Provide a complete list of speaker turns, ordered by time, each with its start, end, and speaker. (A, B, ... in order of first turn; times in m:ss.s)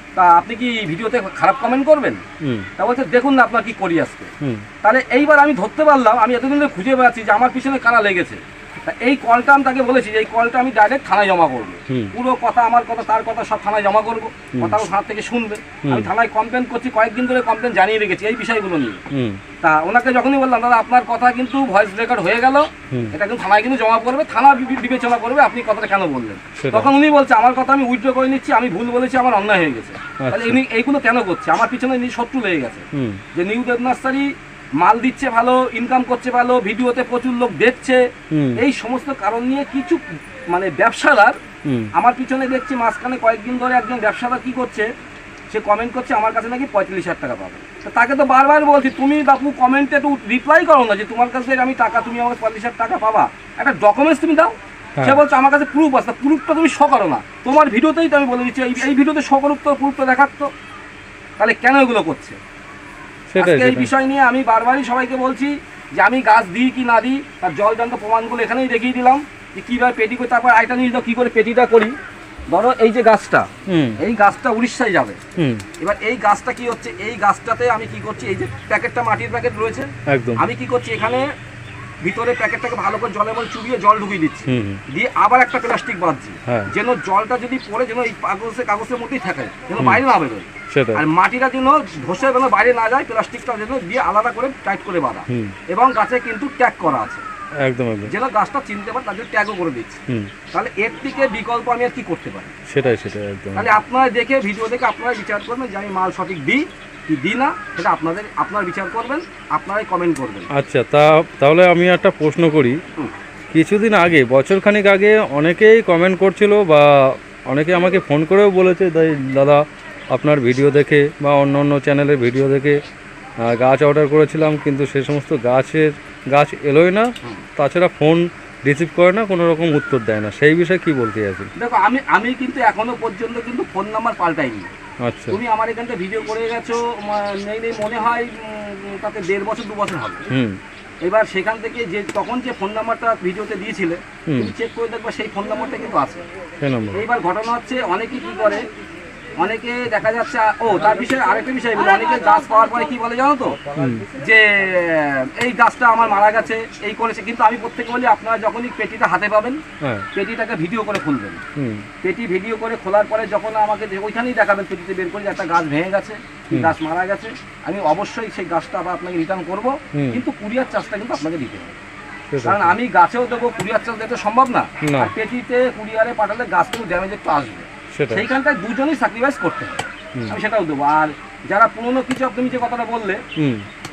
0:00.2-0:02.2 A
0:02.4-0:02.7 B
0:02.8-0:04.3 A
0:04.4-0:04.7 B
0:04.8-0:19.0 A
0:19.1-0:19.4 B
0:19.6-0:38.0 A
0:26.6-0:26.9 B
0:30.2-0:30.6 B
0:32.9-0:33.2 B
0:38.3-0:38.6 B
0:38.6-0:41.4 A
0:41.6-0:41.9 B
0:41.9-0:44.9 A
0:45.5-1:00.5 A
1:01.4-1:02.4 A
1:03.3-1:03.9 B
1:03.4-1:12.0 A
1:12.5-1:15.2 A
1:13.7-1:14.0 B
1:15.4-1:15.6 B
1:15.8-1:21.2 A
1:20.1-1:20.4 B
1:22.0-1:37.2 A
1:24.5-1:24.8 B
1:30.7-1:31.0 B
1:35.3-1:35.6 B
1:37.6-1:38.1 B
1:38.1-1:40.0 A
1:40.5-1:42.5 A
1:42.7-1:43.7 B
1:43.6-1:50.5 A
1:50.5-1:52.8 B
1:53.5-2:02.8 B
2:03.4-2:11.5 B
2:11.6-2:14.7 A
2:15.0-2:15.4 B
2:15.3-2:20.3 A
2:20.3-2:20.6 B
2:21.0-2:26.2 A
2:24.3-2:24.5 B
2:26.6-2:27.1 B
2:26.9-2:28.7 A
2:29.4-2:33.6 A
2:33.8-2:34.1 B
2:34.2-2:39.6 A
2:40.2-2:41.4 A
2:41.6-2:41.9 B
2:42.0-2:51.8 A
2:49.9-2:50.2 B
2:52.3-2:52.8 B
2:52.4-3:03.2 A
2:54.8-2:55.1 B
2:57.9-2:58.3 B
3:03.4-3:03.7 B